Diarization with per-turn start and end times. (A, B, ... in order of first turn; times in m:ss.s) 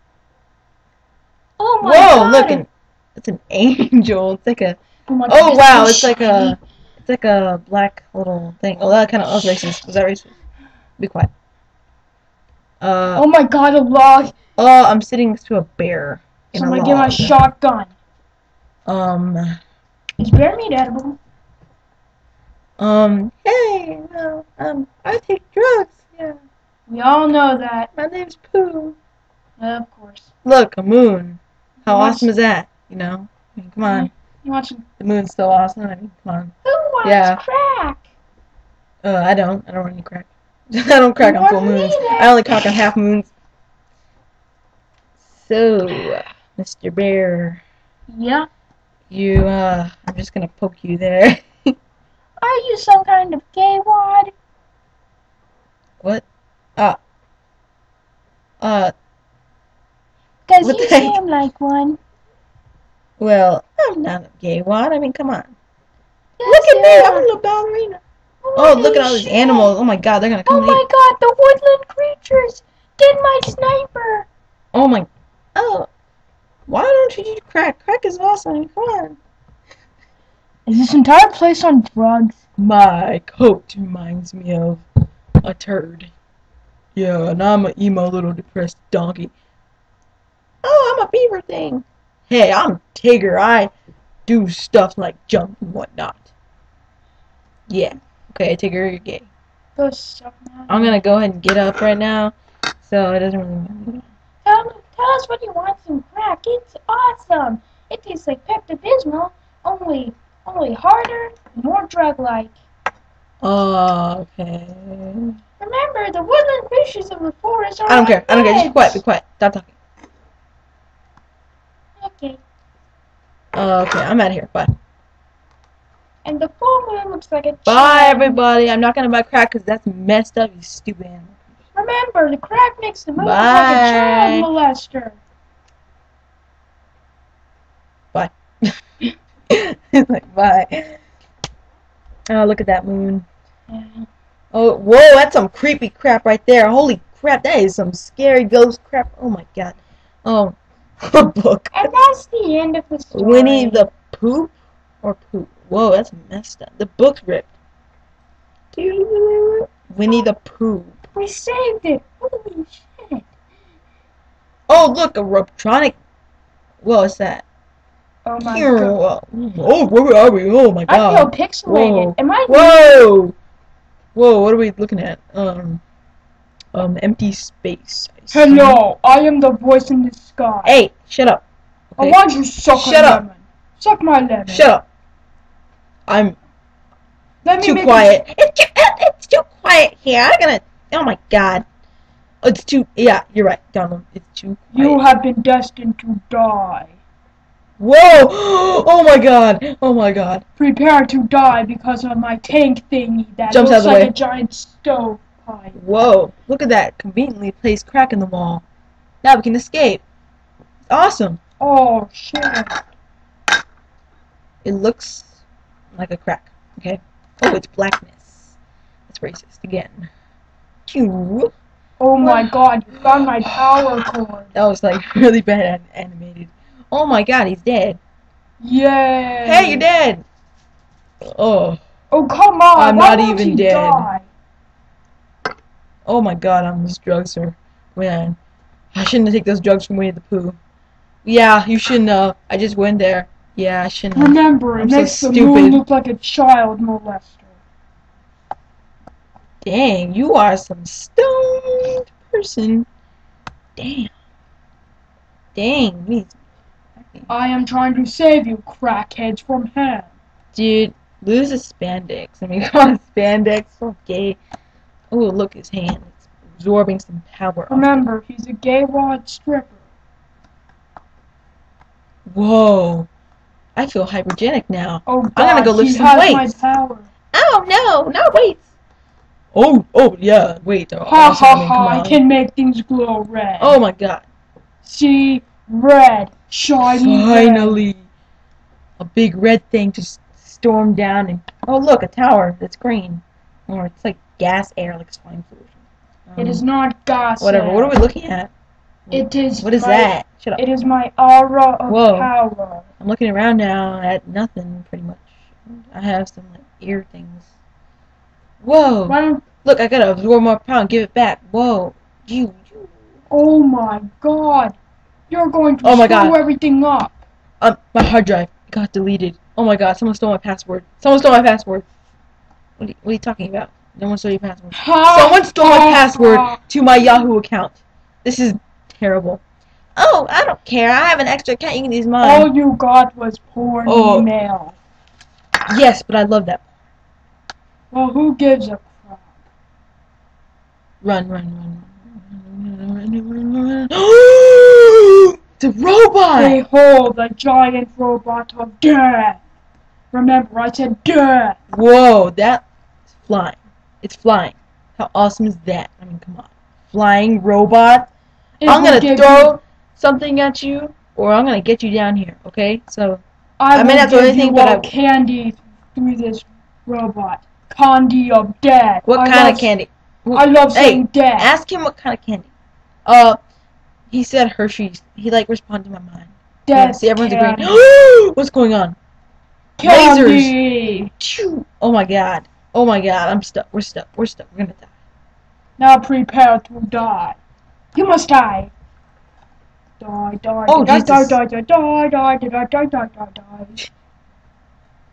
0:01.6-0:02.6 A
0:01.8-0:10.3 B
0:05.1-0:06.6 A
0:09.4-0:09.7 A
0:11.0-0:11.3 B
0:12.8-0:13.3 B
0:13.1-0:14.4 A
0:14.6-0:17.4 B
0:16.5-0:17.9 A
0:18.8-0:19.6 B
0:20.2-0:21.2 A
0:22.8-0:26.4 B
0:26.9-0:27.9 A
0:28.0-0:29.0 B
0:29.6-0:30.3 A
0:30.4-0:34.1 B
0:31.8-0:32.3 A
0:33.8-0:34.8 A
0:35.0-0:36.5 B
0:36.6-0:38.0 A
0:37.0-0:37.4 B
0:39.0-0:43.3 B
0:41.2-0:42.3 A
0:45.3-0:47.6 B
0:48.1-0:48.5 A
0:49.1-0:51.7 B
0:52.4-0:54.3 A
0:58.6-0:58.9 B
1:00.5-1:02.0 A
1:00.6-1:01.2 B
1:03.2-1:05.5 B
1:06.4-1:07.3 A
1:06.4-1:08.0 B
1:08.4-1:09.7 A
1:08.6-1:10.8 B
1:10.4-1:14.3 A
1:14.7-1:15.9 B
1:16.7-1:19.2 B
1:20.6-1:22.4 A
1:22.6-1:24.8 B
1:25.4-1:26.1 B
1:26.9-1:29.3 B
1:30.6-1:33.7 B
1:34.3-1:36.3 B
1:37.7-1:39.3 B
1:39.8-1:41.0 A
1:40.7-1:44.1 B
1:44.4-1:52.5 A
1:53.4-1:55.3 B
1:55.6-1:59.0 A
1:57.8-1:59.7 B
2:02.0-2:02.4 A
2:03.5-2:04.7 B
2:06.2-2:08.4 A
2:07.7-2:11.3 B
2:11.7-2:15.2 A
2:13.2-2:14.5 B
2:18.1-2:18.7 B
2:19.5-2:21.0 B
2:22.3-2:23.2 B
2:23.7-2:24.1 A
2:24.5-2:32.0 B
2:31.7-2:33.9 A
2:33.1-2:37.5 B
2:38.7-2:41.0 B
2:41.1-2:43.2 A
2:44.7-2:46.0 B
2:46.8-2:47.4 B
2:48.2-2:49.0 A
2:48.4-2:53.3 B
2:50.9-2:52.9 A
2:54.1-2:55.8 B
2:56.7-2:58.8 B
2:58.3-3:00.7 A
3:00.6-3:01.4 B
3:02.0-3:04.7 A
3:02.7-3:03.2 B
3:04.5-3:04.8 B
3:06.1-3:06.4 B
3:07.4-3:08.1 A
3:07.6-3:11.6 B
3:12.4-3:15.0 B
3:14.7-3:16.9 A
3:17.8-3:20.4 B
3:20.6-3:25.8 A
3:23.5-3:24.1 B
3:25.7-3:28.6 B
3:29.2-3:30.0 B
3:30.9-3:31.4 B
3:31.6-3:32.8 A
3:34.6-3:35.3 B
3:35.9-3:38.5 B
3:39.1-3:40.1 B
3:40.9-3:41.5 B
3:42.0-3:44.5 A
3:44.5-3:48.0 B
3:48.6-3:49.8 A
3:49.4-3:50.2 B
3:51.3-3:51.8 B
3:52.1-3:54.2 A
3:52.7-3:54.1 B
3:56.0-3:58.4 B
3:58.9-4:00.6 B
4:01.2-4:05.8 B
4:04.1-4:07.6 A
4:09.6-4:12.9 B
4:13.8-4:14.1 B
4:15.5-4:16.4 B
4:17.0-4:17.3 B
4:17.3-4:20.1 A
4:20.5-4:24.4 B
4:25.1-4:28.0 B
4:27.7-4:29.8 A
4:32.2-4:33.1 B
4:33.8-4:36.5 B
4:35.0-4:37.1 A
4:37.3-4:38.6 B
4:39.5-4:42.2 B
4:41.0-4:43.8 A
4:43.6-4:44.2 B
4:44.8-4:47.8 A
4:46.8-4:48.0 B
4:49.0-4:55.8 B
4:56.3-4:56.6 B
4:56.4-4:58.0 A
4:57.4-4:58.5 B
4:59.1-5:00.6 B
4:59.1-5:02.8 A
5:01.9-5:02.3 B
5:03.0-5:07.4 B
5:08.6-5:13.0 B
5:09.1-5:09.4 A
5:13.3-5:14.8 A
5:15.3-5:17.2 A
5:15.8-5:16.4 B
5:17.6-5:21.8 B
5:22.8-5:29.4 B
5:24.7-5:26.6 A
5:30.0-5:32.5 B
5:32.2-5:34.8 A
5:33.8-5:34.3 B
5:35.7-5:36.6 B
5:37.9-5:39.2 A
5:41.0-5:46.6 B
5:46.4-5:49.4 A
5:50.1-5:51.6 A
5:51.7-5:52.6 B
5:53.2-5:58.1 B
5:58.6-5:59.5 A
5:58.6-6:03.2 B
6:03.6-6:09.7 A
6:03.7-6:04.9 B
6:09.0-6:12.5 B
6:10.3-6:11.5 A
6:13.0-6:13.4 B
6:14.1-6:19.0 B
6:16.6-6:17.7 A
6:19.8-6:21.1 A
6:19.8-6:20.5 B
6:21.2-6:24.9 B
6:25.8-6:27.4 A
6:27.9-6:28.7 A
6:30.0-6:33.9 A
6:30.7-6:31.4 B